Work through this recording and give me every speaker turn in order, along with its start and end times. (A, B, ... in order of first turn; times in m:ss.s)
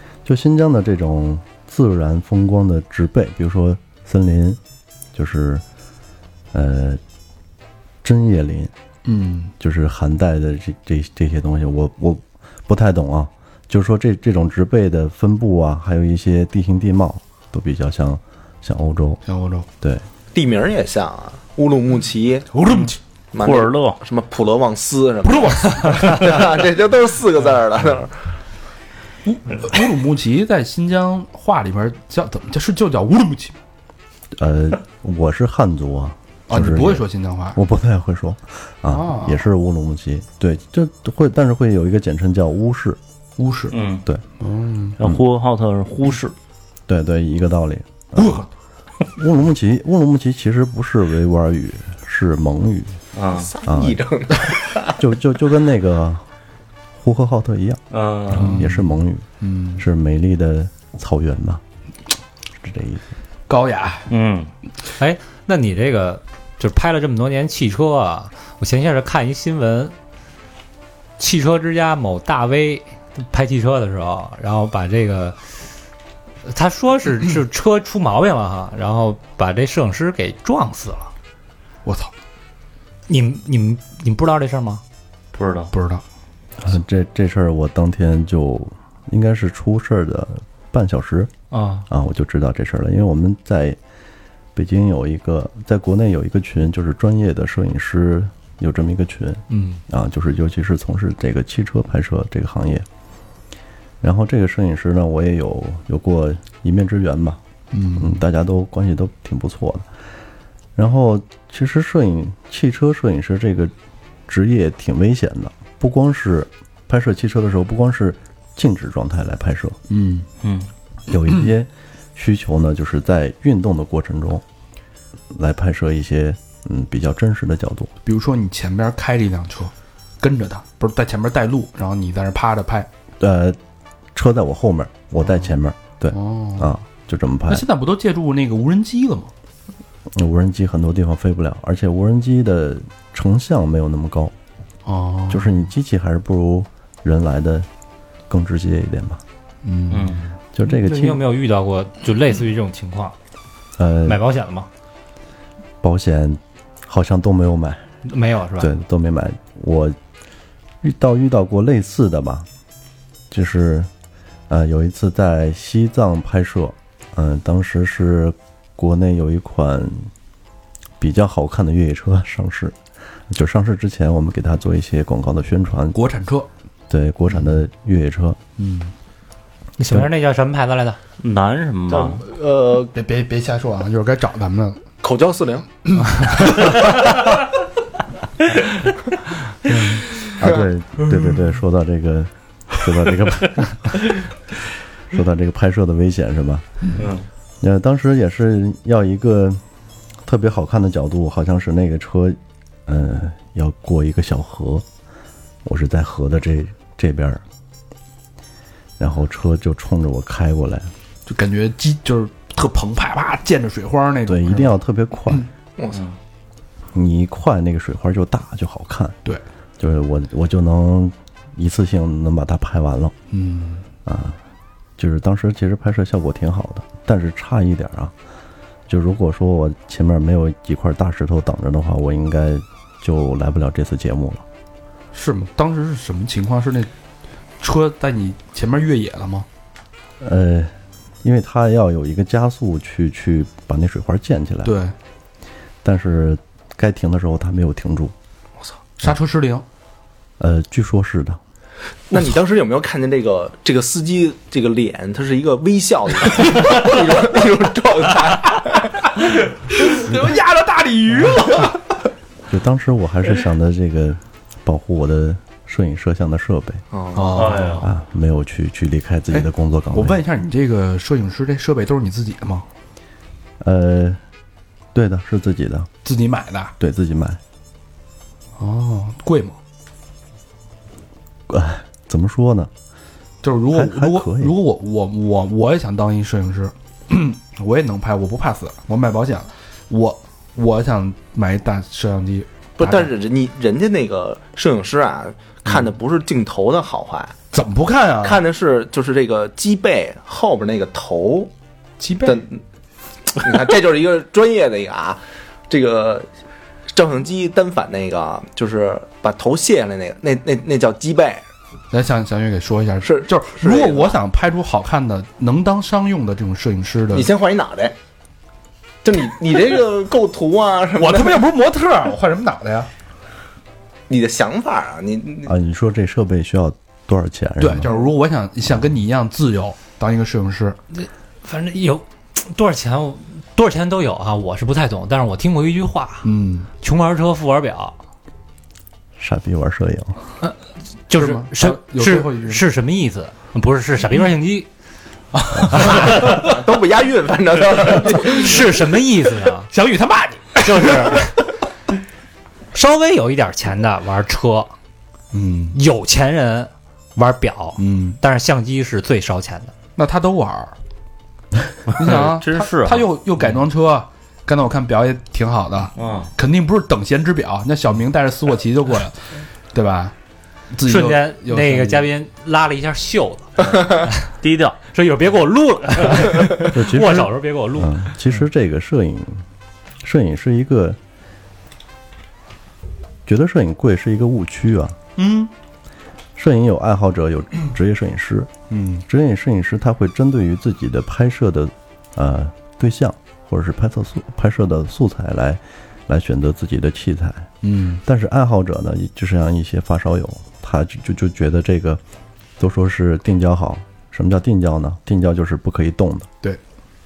0:00.2-0:04.6 A
0:05.1-0:05.6 A
0:06.5-0:07.0 A
0:08.0-0:08.7 A
0:09.0-0:09.5 B
0:09.6-0:19.2 A
0:19.2-0:19.7 B
0:20.3-0:22.5 C
0:22.5-0:23.0 B
0:23.3-0:28.1 C
0:23.4-0:24.0 D
0:25.4-0:26.4 B
0:29.2-0:33.6 B
0:34.4-0:43.0 A
0:36.5-0:37.6 B
0:38.9-0:39.4 B
0:43.4-0:43.8 B
0:43.7-0:44.0 D
0:44.4-0:45.0 B
0:45.0-0:46.4 D
0:46.9-0:48.4 A
0:48.2-0:48.5 B
0:49.2-0:53.0 A
0:53.1-0:53.5 D
0:53.3-0:54.9 C
0:53.6-0:54.0 A
0:54.9-0:56.2 A
0:56.9-0:59.2 A
0:57.9-0:58.6 D
0:58.3-0:59.8 B
0:59.8-1:01.6 A
1:02.6-1:03.0 A
1:03.5-1:04.1 B
1:04.1-1:04.5 D
1:05.0-1:09.9 E
1:11.2-1:15.4 E
1:16.5-1:21.1 E
1:21.8-1:22.1 B
1:23.1-1:24.8 E
1:25.3-1:25.7 D
1:25.7-1:26.0 B
1:26.6-1:31.3 A
1:31.5-1:31.8 E
1:31.9-1:33.8 A
1:34.5-1:42.9 A
1:39.5-1:39.8 B
1:44.0-1:47.4 A
1:47.7-1:48.2 B
1:48.0-1:49.9 A
1:50.8-1:53.7 A
1:54.3-1:59.8 A
1:59.9-2:00.3 B
2:00.4-2:00.7 D
2:01.1-2:04.4 A
2:05.3-2:07.9 A
2:08.0-2:12.9 B
2:13.2-2:13.6 A
2:14.1-2:17.7 A
2:15.2-2:15.5 B
2:16.1-2:16.7 B
2:17.5-2:19.3 B
2:20.1-2:24.3 A
2:24.8-2:25.6 B
2:25.3-2:27.7 A
2:28.3-2:29.2 A
2:29.6-2:30.2 B
2:29.9-2:30.3 D
2:30.5-2:31.2 A
2:30.6-2:33.1 E
2:33.8-2:34.2 A
2:34.0-2:34.7 E
2:35.8-2:37.8 A
2:38.0-2:38.7 E
2:38.6-2:40.0 A
2:40.8-2:42.5 A
2:43.3-2:43.9 A
2:44.5-2:50.1 A
2:51.0-2:52.8 A
2:53.3-2:56.0 A
2:55.9-2:56.5 B
2:56.9-2:58.4 A
2:58.6-2:58.9 B
2:59.8-3:01.0 E
3:01.2-3:02.2 D
3:01.9-3:02.9 C
3:02.9-3:04.8 B
3:05.0-3:05.7 C
3:05.9-3:06.7 B
3:09.7-3:10.1 B
3:10.4-3:13.9 A
3:15.1-3:16.7 A
3:17.0-3:17.2 D
3:17.6-3:19.6 A
3:20.2-3:24.9 A
3:25.6-3:27.4 A
3:29.0-3:30.9 A
3:31.2-3:34.8 B
3:34.2-3:35.5 A
3:35.8-3:36.1 C
3:36.9-3:39.2 A
3:39.8-3:43.1 A
3:43.3-3:43.8 B
3:44.0-3:44.4 A
3:45.0-3:48.1 A
3:48.9-3:54.4 A
3:55.1-3:56.9 B
3:57.6-3:59.5 B
4:00.2-4:04.7 A
4:04.6-4:04.9 B
4:05.8-4:08.1 A
4:09.0-4:09.6 B
4:10.4-4:11.4 A
4:12.1-4:18.9 C
4:19.7-4:21.8 B
4:22.5-4:26.8 A
4:26.9-4:27.4 C
4:27.1-4:27.8 B
4:27.4-4:27.9 D
4:27.8-4:30.2 A
4:29.3-4:32.7 B
4:33.6-4:34.2 A
4:34.9-4:35.9 A
4:36.0-4:36.7 B
4:36.8-4:37.4 A
4:38.6-4:39.6 B
4:41.5-4:42.7 A
4:43.4-4:53.1 B
4:43.7-4:44.6 A
4:52.8-4:57.4 C
4:57.5-4:58.4 B
4:58.2-5:01.5 C
5:02.0-5:02.4 B
5:02.2-5:02.6 C
5:03.4-5:06.3 C
5:06.9-5:11.5 C
5:11.9-5:17.3 B
5:13.0-5:14.2 C
5:17.1-5:17.9 C
5:19.0-5:21.5 C
5:21.0-5:22.9 B
5:24.1-5:25.5 C
5:25.4-5:27.9 A
5:27.6-5:30.8 B
5:30.9-5:36.3 E
5:36.2-5:36.7 B
5:36.8-5:38.0 E
5:39.2-5:40.2 A
5:41.1-5:44.7 E
5:41.1-5:42.6 B
5:45.3-5:46.4 B
5:46.0-5:48.5 C
5:48.4-5:49.7 E
5:49.7-5:51.3 B
5:50.6-5:51.4 E
5:52.7-5:54.7 E
5:55.3-5:55.8 B
5:55.7-5:59.7 E
5:57.8-5:58.2 B
6:00.0-6:00.8 B
6:01.9-6:03.1 D
6:02.0-6:10.1 B
6:06.0-6:06.3 D
6:10.7-6:12.1 B
6:10.8-6:14.2 E
6:14.4-6:14.8 D
6:14.9-6:18.4 E
6:16.7-6:19.4 A
6:20.0-6:21.0 A
6:23.2-6:25.0 A
6:25.2-6:25.5 B
6:26.4-6:28.5 A
6:28.7-6:29.0 B
6:29.1-6:37.5 A
6:37.6-6:38.0 B
6:38.0-6:42.0 A
6:42.6-6:46.3 A